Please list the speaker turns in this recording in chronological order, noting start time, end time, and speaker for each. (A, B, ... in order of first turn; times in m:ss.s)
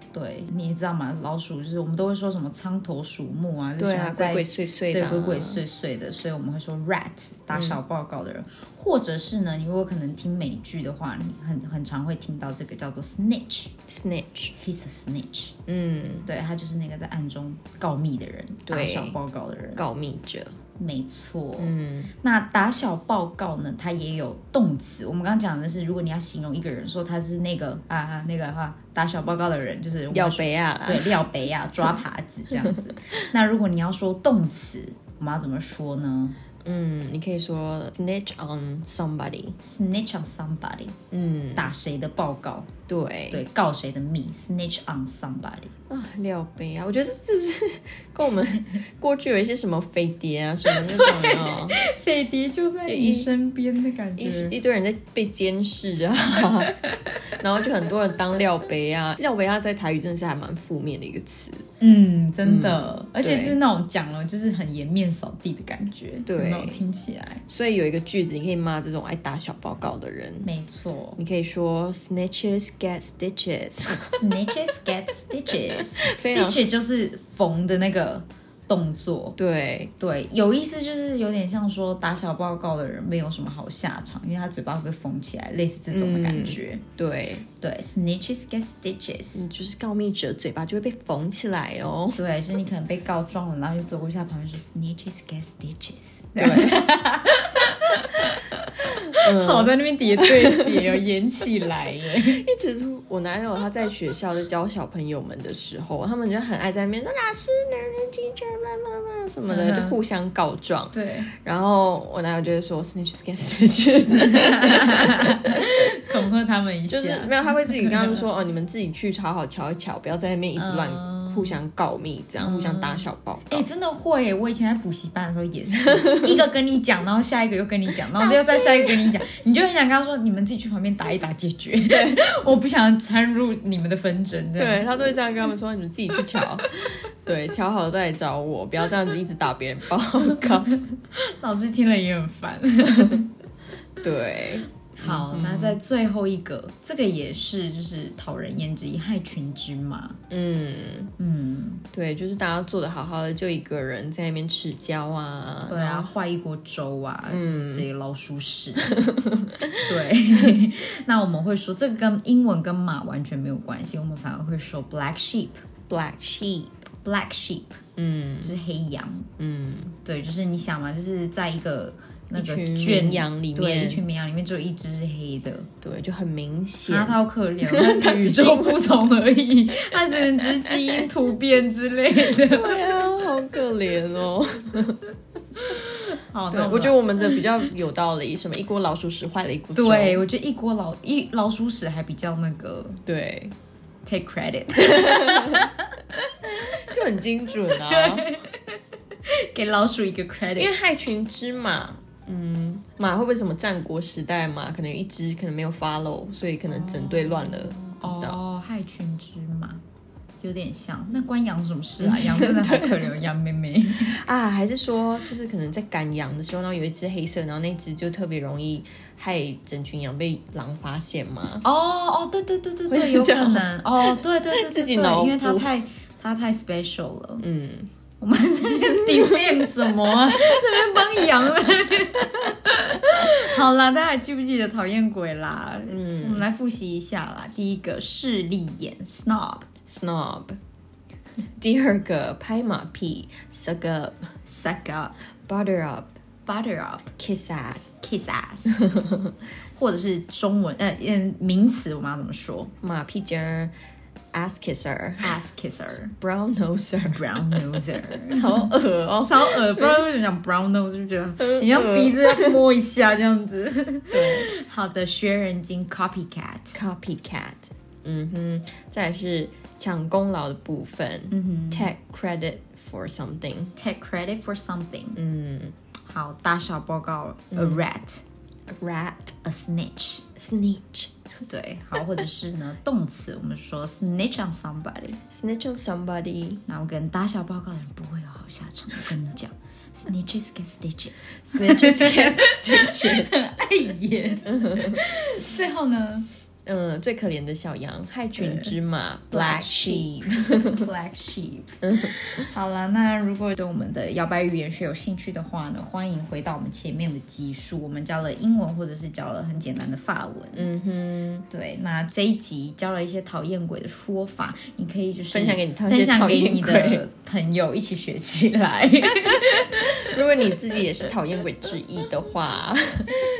0:00.1-0:13.7 A
0:03.8-0:05.6 B
0:07.5-0:07.8 B
0:13.9-0:14.5 B
0:14.6-0:15.5 A
0:15.7-0:16.3 B
0:16.2-0:19.8 A
0:18.7-0:19.2 B
0:19.8-0:20.6 B
0:20.8-0:36.4 A
0:21.6-0:22.1 B
0:30.1-0:31.2 B
0:36.6-0:39.6 B
0:39.6-0:41.0 A
0:41.1-0:41.7 B
0:41.5-0:42.7 A
0:42.9-0:43.4 B
0:43.3-0:45.7 A
0:45.9-0:51.8 B
0:50.7-0:54.6 A
0:52.9-0:53.3 B
0:54.2-1:01.6 B
1:01.8-1:07.4 A
1:02.4-1:03.6 B
1:06.2-1:06.8 B
1:07.5-1:10.5 B
1:10.4-1:11.2 A
1:11.2-1:14.2 B
1:14.1-1:19.4 A
1:15.7-1:16.6 B
1:19.4-1:19.9 B
1:20.0-1:26.8 A
1:25.9-1:27.5 B
1:27.6-1:29.5 A
1:29.3-1:32.2 B
1:32.1-1:42.4 A
1:36.4-1:36.9 B
1:39.1-1:41.0 B
1:42.1-1:55.0 B
1:49.5-1:50.0 A
1:50.9-1:51.3 A
1:54.3-1:58.2 A
1:56.9-2:03.6 B
2:00.6-2:01.6 A
2:02.4-2:15.4 A
2:08.1-2:09.1 B
2:11.8-2:12.2 B
2:14.6-2:20.7 B
2:20.7-2:23.3 A
2:24.0-2:25.8 B
2:25.0-2:30.2 A
2:30.3-2:31.1 B
2:31.2-2:31.8 A
2:31.9-2:36.1 B
2:35.7-2:39.0 A
2:37.2-2:37.8 B
2:38.9-2:39.9 B
2:39.8-2:45.6 A
2:45.9-2:46.8 B
2:47.0-2:47.8 A
2:48.0-2:48.5 B
2:48.4-2:49.3 A
2:49.4-2:50.0 B
2:50.0-2:55.7 A
2:52.3-2:54.0 B
2:55.8-2:58.8 B
2:56.9-3:02.9 A
3:00.4-3:01.0 B
3:02.3-3:05.0 B
3:05.6-3:07.6 A
3:06.5-3:10.2 B
3:09.7-3:13.0 A
3:13.0-3:13.5 B
3:14.0-3:16.0 A
3:14.8-3:15.7 B
3:16.6-3:18.3 B
3:17.8-3:18.7 A
3:19.3-3:20.7 A
3:20.5-3:28.4 B
3:26.7-3:29.8 A
3:30.4-3:34.2 A
3:32.0-3:33.1 B
3:34.0-3:41.6 B
3:41.6-3:47.5 A
3:42.9-3:45.7 B
3:47.4-3:47.9 B
3:48.2-3:59.7 A
3:55.9-3:56.5 B
3:59.8-4:00.6 B
4:01.6-4:04.3 B
4:04.4-4:05.2 A
4:05.4-4:06.2 B
4:06.4-4:07.1 A
4:07.2-4:08.0 B
4:08.0-4:08.8 A
4:08.7-4:09.3 B
4:09.7-4:12.7 A
4:12.8-4:13.7 B
4:14.3-4:15.4 B
4:15.2-4:16.1 A
4:16.2-4:20.1 B
4:17.1-4:26.8 A
4:21.4-4:22.6 B
4:24.1-4:24.5 B
4:26.7-4:33.7 B
4:31.3-4:31.9 A
4:33.8-4:35.2 A
4:35.2-4:35.8 B
4:36.1-4:38.2 A
4:37.5-4:37.8 B
4:38.7-4:39.4 B
4:39.4-4:40.3 A
4:40.4-4:41.1 B
4:41.5-4:45.2 A
4:45.3-4:46.6 B
4:46.7-4:56.2 A
4:51.5-4:53.4 B
4:54.5-4:55.0 B
4:56.6-5:00.9 B
4:58.4-4:58.7 A
4:59.3-5:10.7 A
5:01.8-5:02.2 B
5:10.5-5:11.5 B
5:11.5-5:19.9 A
5:15.3-5:17.0 B
5:19.4-5:23.2 B